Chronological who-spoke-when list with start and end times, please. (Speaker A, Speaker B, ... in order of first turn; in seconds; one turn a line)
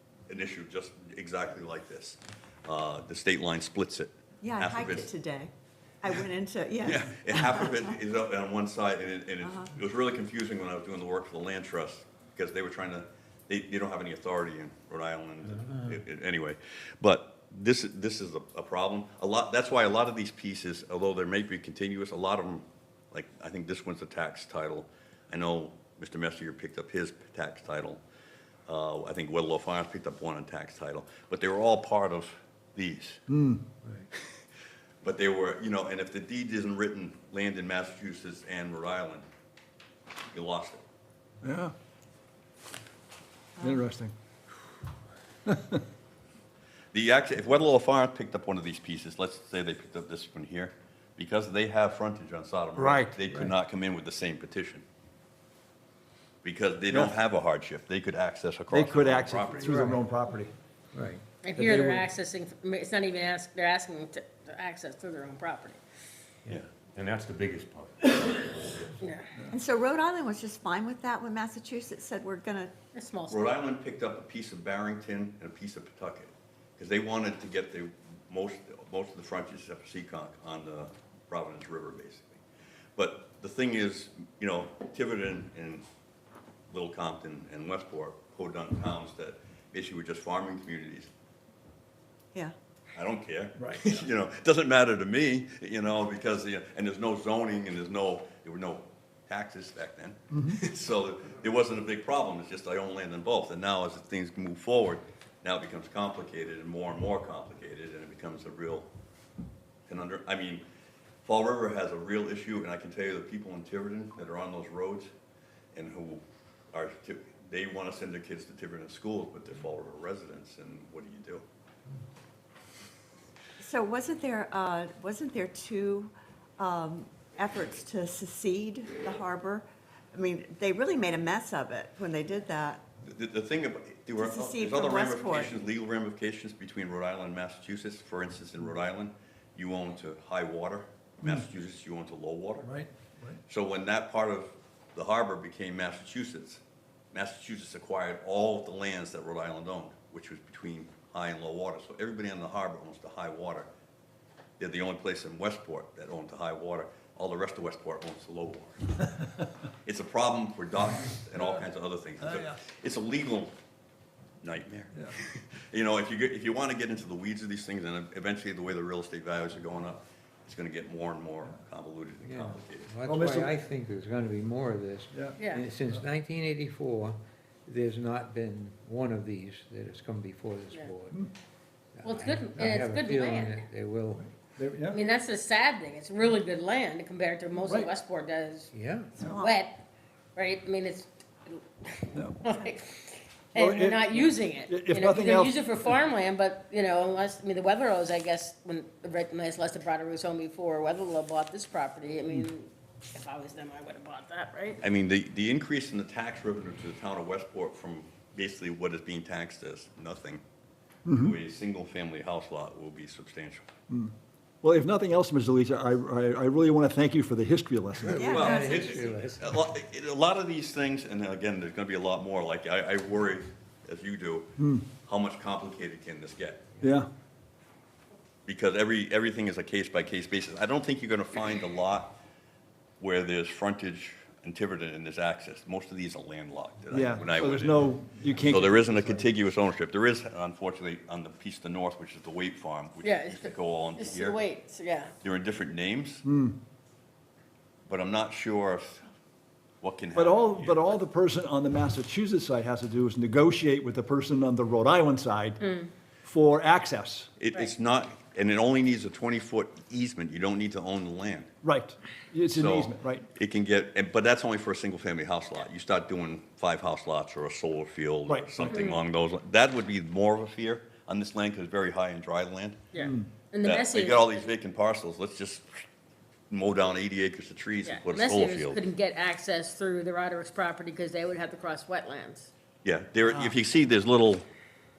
Speaker A: 0.3-5.0
Speaker B: 4.4-5.5
Speaker B: 6.0-7.9
Speaker A: 6.8-28.0
Speaker A: 28.7-33.2
Speaker C: 33.3-33.6
Speaker A: 34.1-34.4
Speaker A: 35.0-39.2
Speaker A: 40.3-40.8
Speaker C: 41.4-41.7
Speaker C: 43.6-44.1
Speaker C: 45.5-45.8
Speaker A: 46.9-54.8
Speaker C: 52.7-53.2
Speaker A: 56.4-60.0
Speaker C: 58.7-60.5
Speaker D: 59.6-59.9
Speaker D: 60.9-61.2
Speaker E: 61.4-65.8
Speaker C: 61.5-62.0
Speaker F: 66.8-68.9
Speaker E: 69.0-69.3
Speaker B: 69.5-72.7
Speaker E: 72.9-73.6
Speaker A: 73.3-82.4
Speaker A: 83.0-85.8
Speaker A: 86.7-91.1
Speaker A: 92.9-108.9
Speaker C: 93.6-94.0
Speaker C: 100.3-100.6
Speaker A: 109.9-110.6
Speaker A: 111.2-115.1
Speaker A: 115.7-116.2
Speaker A: 116.7-121.4
Speaker B: 123.6-132.8
Speaker A: 133.0-142.7
Speaker B: 134.2-135.6
Speaker C: 142.6-143.4
Speaker A: 143.5-153.7
Speaker A: 154.6-158.9
Speaker A: 159.8-163.5
Speaker A: 164.4-173.0
Speaker D: 172.2-181.3
Speaker C: 173.0-173.5
Speaker C: 175.1-176.1
Speaker E: 175.4-175.6
Speaker D: 181.9-184.3
Speaker E: 182.0-183.7
Speaker C: 184.6-185.0
Speaker E: 184.9-188.7
Speaker C: 187.6-187.9
Speaker D: 188.7-189.1
Speaker B: 189.2-189.6
Speaker E: 189.3-189.8
Speaker E: 190.3-204.8
Speaker C: 192.1-192.4
Speaker C: 193.6-195.6
Speaker A: 204.8-210.4
Speaker C: 211.0-211.3
Speaker A: 211.1-213.7
Speaker C: 213.9-218.4
Speaker D: 218.0-219.6
Speaker A: 218.2-226.7
Speaker B: 218.2-219.0
Speaker C: 224.6-224.8
Speaker C: 226.8-227.1
Speaker A: 228.4-232.2
Speaker A: 233.0-244.4
Speaker C: 236.9-239.3
Speaker E: 243.0-245.1
Speaker A: 245.2-246.2
Speaker C: 246.2-246.6
Speaker A: 247.9-249.0
Speaker A: 249.8-250.8
Speaker C: 250.1-255.6
Speaker E: 255.6-255.9
Speaker C: 256.2-257.3
Speaker A: 257.4-261.5
Speaker C: 261.6-263.3
Speaker A: 262.5-272.9
Speaker C: 268.3-268.8
Speaker E: 268.6-269.0
Speaker E: 272.9-274.3
Speaker C: 272.9-273.3
Speaker A: 273.6-275.7
Speaker A: 276.5-278.8
Speaker E: 277.8-282.5
Speaker A: 282.8-284.4